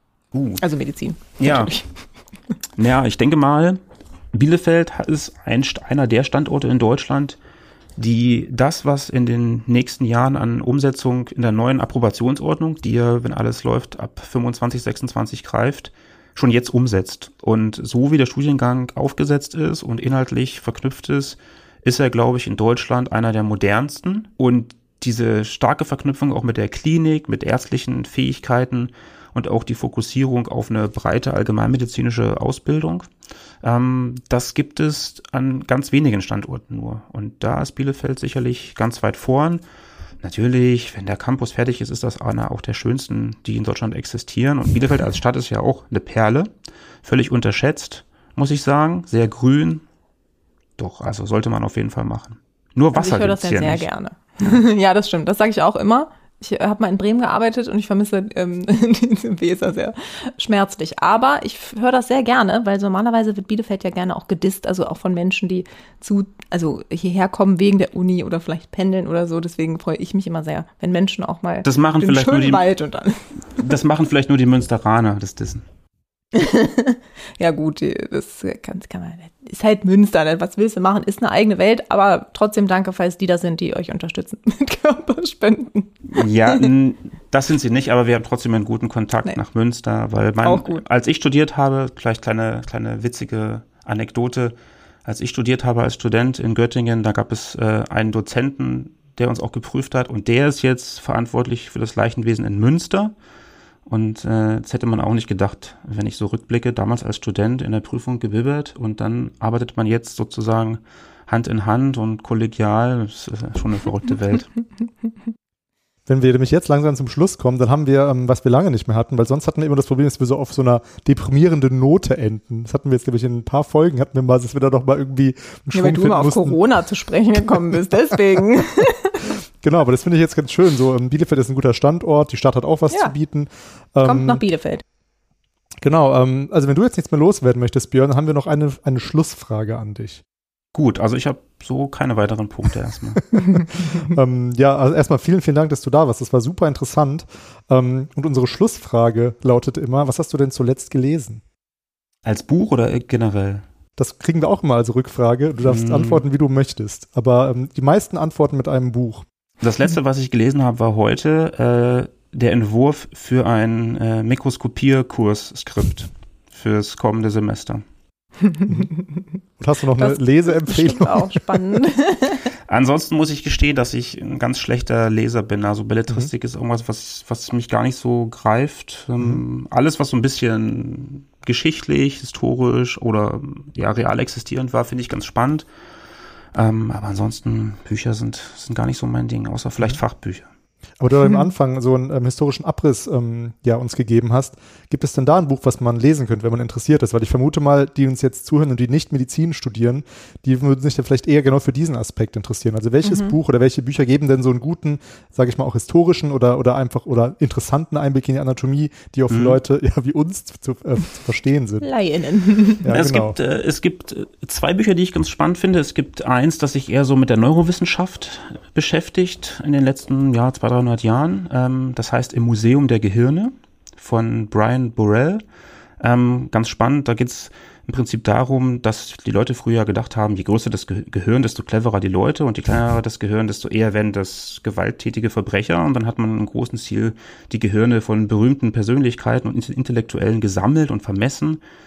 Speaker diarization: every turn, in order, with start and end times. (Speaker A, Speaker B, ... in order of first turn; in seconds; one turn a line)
Speaker A: 0.3-0.6
Speaker B: 0.6-1.9
Speaker A: 1.4-1.7
Speaker A: 2.7-3.8
Speaker A: 4.3-7.4
Speaker A: 8.0-33.1
Speaker A: 33.6-39.6
Speaker A: 40.2-46.5
Speaker A: 47.0-49.8
Speaker A: 50.8-53.9
Speaker B: 52.9-73.7
Speaker A: 71.6-72.7
Speaker A: 73.5-75.6
Speaker B: 76.3-86.7
Speaker A: 86.1-103.1
Speaker B: 90.4-90.8
Speaker A: 103.9-114.5
Speaker C: 116.0-126.6
Speaker B: 125.7-129.3
Speaker C: 127.5-127.8
Speaker C: 129.6-134.4
Speaker B: 134.0-134.8
Speaker C: 135.8-140.2
Speaker A: 140.7-143.2
Speaker C: 143.3-151.4
Speaker A: 152.2-153.6
Speaker C: 154.0-159.2
Speaker A: 155.6-156.2
Speaker A: 159.6-167.8
Speaker B: 168.4-169.2
Speaker C: 169.6-171.6
Speaker B: 170.0-172.5
Speaker A: 172.7-185.7
Speaker A: 186.5-190.5
Speaker C: 191.0-211.8
Speaker B: 203.0-203.3
Speaker A: 209.3-209.6
Speaker B: 211.8-212.9
Speaker C: 212.8-213.3
Speaker A: 212.9-225.4
Speaker A: 226.0-241.6